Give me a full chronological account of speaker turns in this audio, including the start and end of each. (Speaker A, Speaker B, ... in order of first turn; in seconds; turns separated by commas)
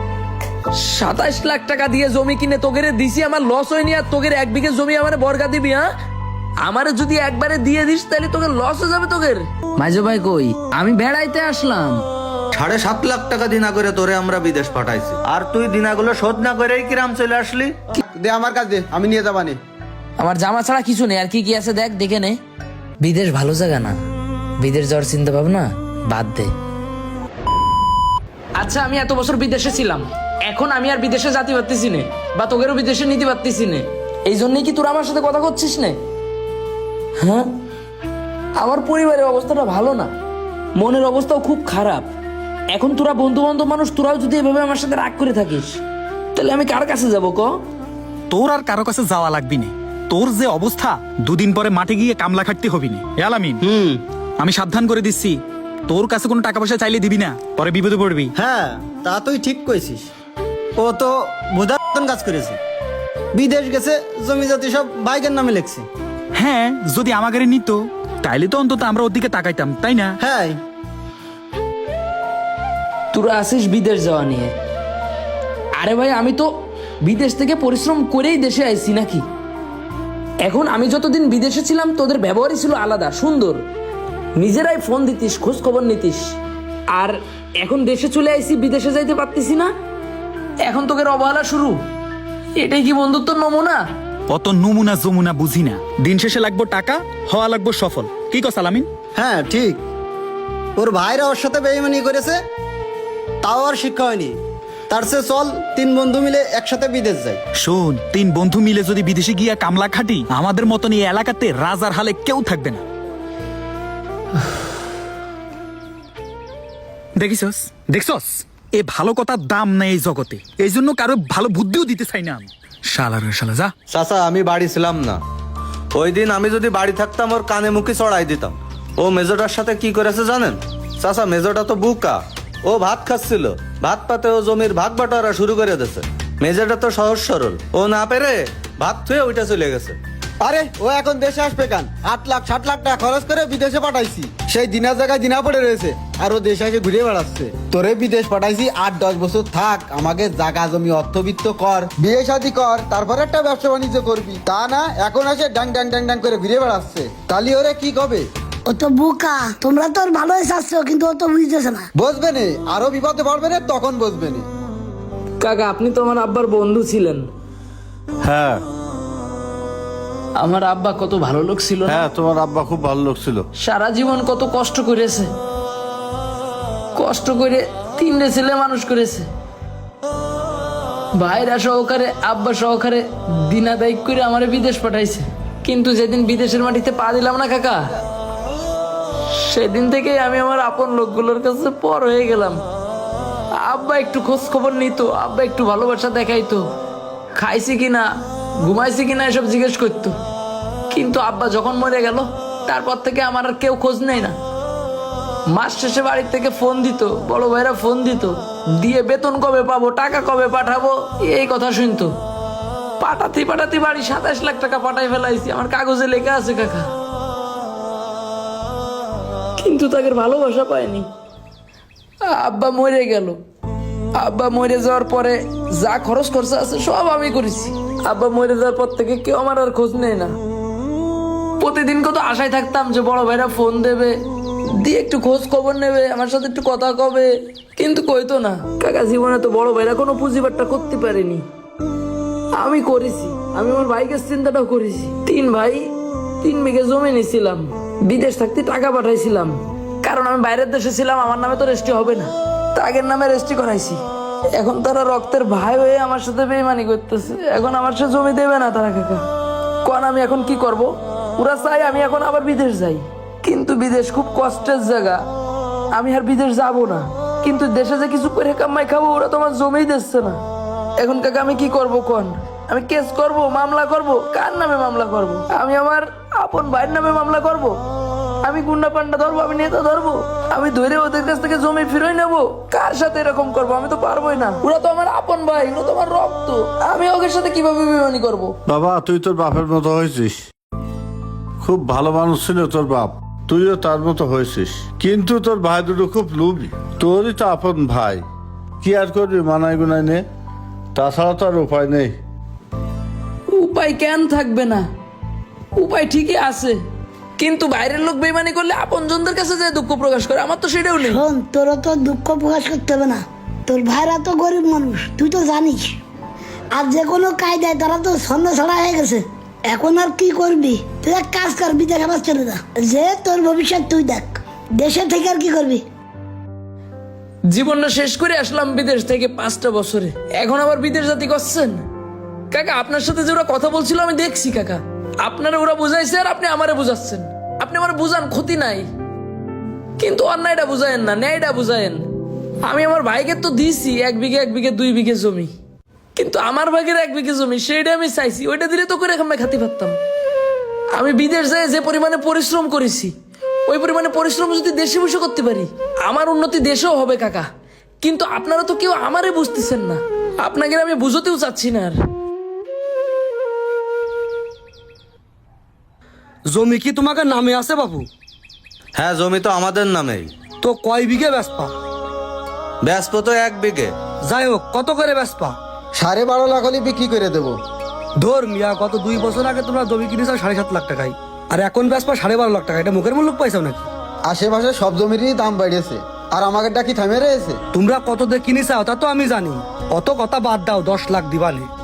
Speaker A: 0.7-5.9, Speaker A: 6.6-12.0, Speaker B: 12.5-17.8, Speaker C: 18.0-19.6, Speaker A: 20.2-22.4, Speaker A: 23.0-24.0, Speaker A: 24.6-26.5, Speaker A: 28.6-36.0, Speaker A: 37.2-37.5, Speaker A: 38.6-40.1, Speaker A: 40.8-42.1, Speaker A: 42.7-45.8, Speaker A: 46.3-47.5, Speaker D: 48.3-53.6, Speaker D: 54.4-58.3, Speaker D: 66.3-70.2, Speaker A: 73.1-74.5, Speaker A: 75.8-76.5, Speaker A: 77.0-79.2, Speaker A: 80.4-83.6, Speaker A: 84.4-86.3, Speaker A: 86.9-89.7, Speaker A: 90.6-91.8, Speaker A: 92.6-93.8, Speaker D: 94.3-98.9, Speaker D: 107.6-112.8, Speaker D: 117.2-123.7, Speaker B: 123.9-125.2, Speaker B: 126.0-140.0, Speaker C: 140.4-158.2, Speaker E: 158.7-161.9, Speaker C: 161.9-164.4, Speaker A: 165.4-167.2, Speaker F: 168.2-168.6, Speaker A: 170.4-172.1, Speaker F: 171.8-173.5, Speaker A: 173.6-175.3, Speaker A: 176.9-179.3, Speaker A: 181.2-187.9, Speaker A: 189.3-192.6, Speaker A: 193.6-196.6, Speaker A: 197.3-198.1, Speaker A: 198.6-200.1, Speaker A: 200.9-204.3, Speaker A: 205.5-212.1, Speaker A: 213.0-216.9, Speaker A: 219.6-221.1, Speaker A: 222.3-223.4, Speaker A: 224.2-230.3, Speaker A: 231.6-234.1, Speaker A: 234.7-241.4, Speaker A: 242.6-245.8, Speaker A: 246.4-254.0, Speaker A: 254.5-259.2, Speaker A: 259.8-265.2, Speaker A: 265.9-270.4, Speaker A: 271.0-277.8, Speaker A: 278.4-288.5, Speaker F: 288.7-290.4, Speaker F: 291.6-298.2, Speaker F: 298.8-300.2, Speaker F: 300.9-302.2, Speaker A: 303.5-304.9, Speaker A: 305.8-306.8, Speaker A: 307.4-311.2, Speaker E: 311.0-315.9, Speaker E: 316.7-325.8, Speaker A: 327.5-331.8, Speaker A: 332.5-338.9, Speaker A: 340.0-342.0, Speaker A: 342.6-345.5, Speaker A: 346.1-350.0, Speaker A: 350.9-353.1, Speaker A: 353.7-357.5, Speaker A: 358.0-362.0, Speaker G: 366.5-368.1, Speaker B: 369.0-370.3, Speaker G: 370.6-371.7, Speaker B: 372.8-373.9, Speaker G: 374.2-375.6, Speaker C: 375.9-377.6, Speaker G: 378.2-383.9, Speaker C: 384.3-387.6, Speaker G: 387.7-391.7